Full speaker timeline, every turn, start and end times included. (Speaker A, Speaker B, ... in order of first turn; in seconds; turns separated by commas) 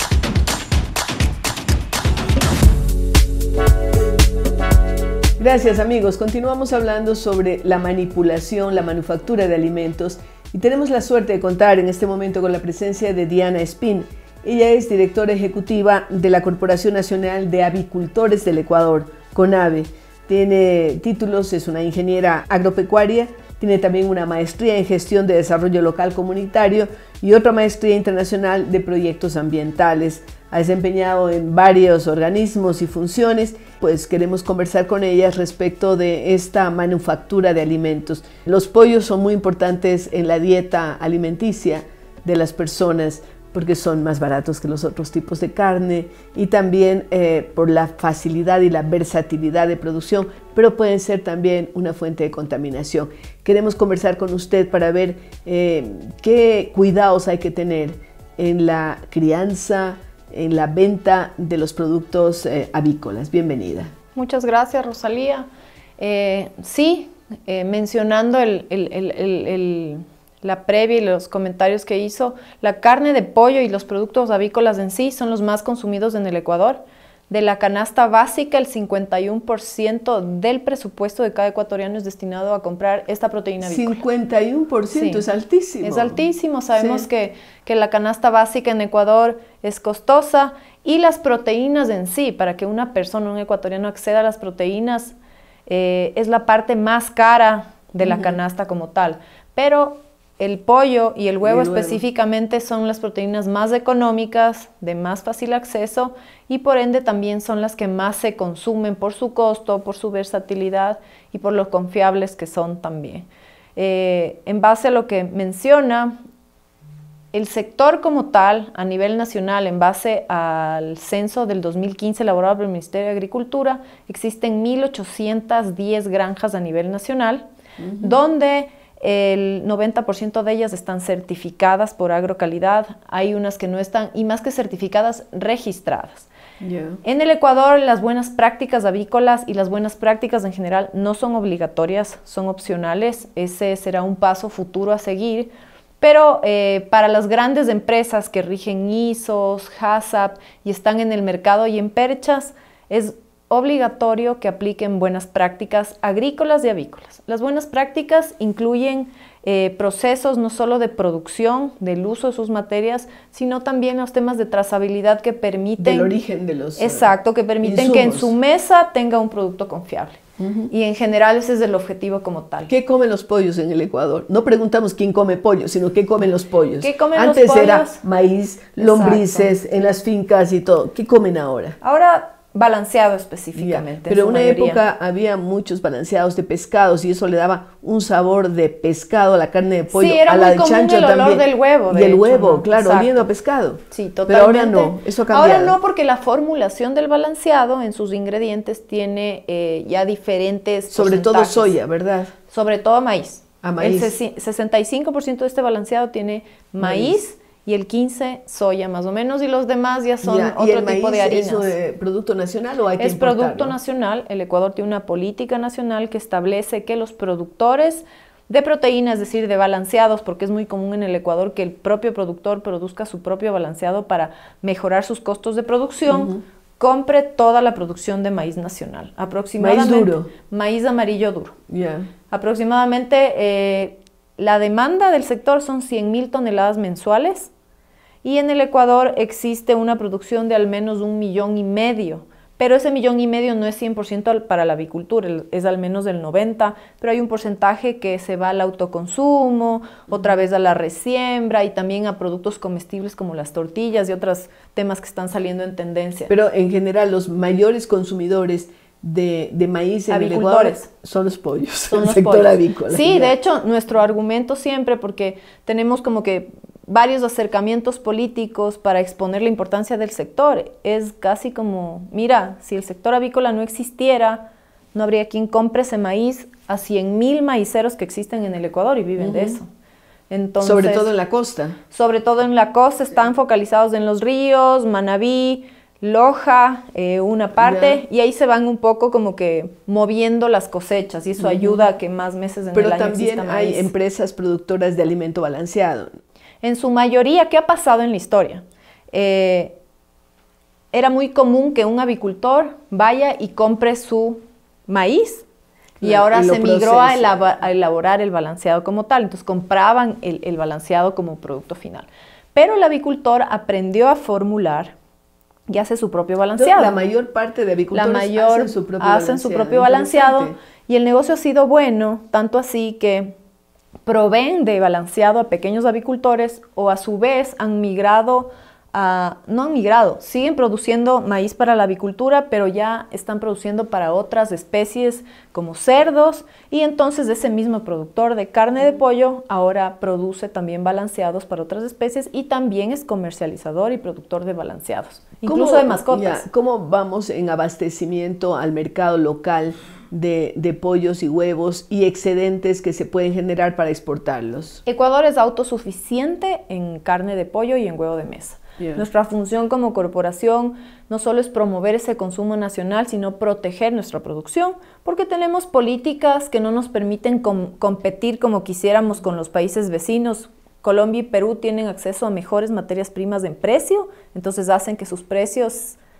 Speaker A: 5.4-63.9, Speaker B: 64.2-84.0, Speaker A: 83.6-86.2, Speaker B: 84.9-85.2, Speaker B: 85.8-95.1, Speaker A: 86.7-87.0, Speaker B: 95.7-116.2, Speaker A: 98.0-98.4, Speaker A: 101.4-102.0, Speaker B: 117.3-127.5, Speaker A: 127.8-128.2, Speaker B: 128.0-136.3, Speaker A: 136.6-137.0, Speaker B: 137.0-166.1, Speaker A: 165.8-167.1, Speaker B: 166.8-170.2, Speaker A: 167.6-168.3, Speaker A: 170.4-170.7, Speaker B: 170.7-172.7, Speaker A: 172.7-181.8, Speaker B: 176.8-178.0, Speaker B: 178.8-179.5, Speaker B: 181.8-184.8, Speaker A: 183.6-195.8, Speaker B: 189.9-193.3, Speaker B: 193.9-201.7, Speaker A: 200.9-202.3, Speaker B: 202.5-211.7, Speaker A: 203.6-204.2, Speaker A: 206.8-207.2, Speaker A: 210.2-213.8, Speaker B: 213.0-231.6, Speaker A: 226.1-226.4, Speaker A: 229.6-230.3, Speaker A: 231.7-232.1, Speaker B: 232.3-237.5, Speaker B: 238.2-256.3, Speaker A: 256.3-263.3, Speaker B: 260.1-260.9, Speaker B: 261.9-279.7, Speaker A: 279.2-279.6, Speaker B: 280.3-281.1, Speaker A: 280.6-281.8, Speaker B: 281.9-293.9, Speaker A: 287.6-288.0, Speaker A: 291.4-291.8, Speaker A: 292.7-296.2, Speaker B: 296.6-299.7, Speaker B: 300.9-305.4, Speaker A: 306.0-307.4, Speaker B: 306.0-314.9, Speaker B: 315.7-316.9, Speaker A: 316.6-320.5, Speaker B: 317.9-323.3, Speaker B: 324.1-346.4, Speaker A: 345.4-354.8, Speaker B: 354.9-376.0, Speaker A: 358.8-359.0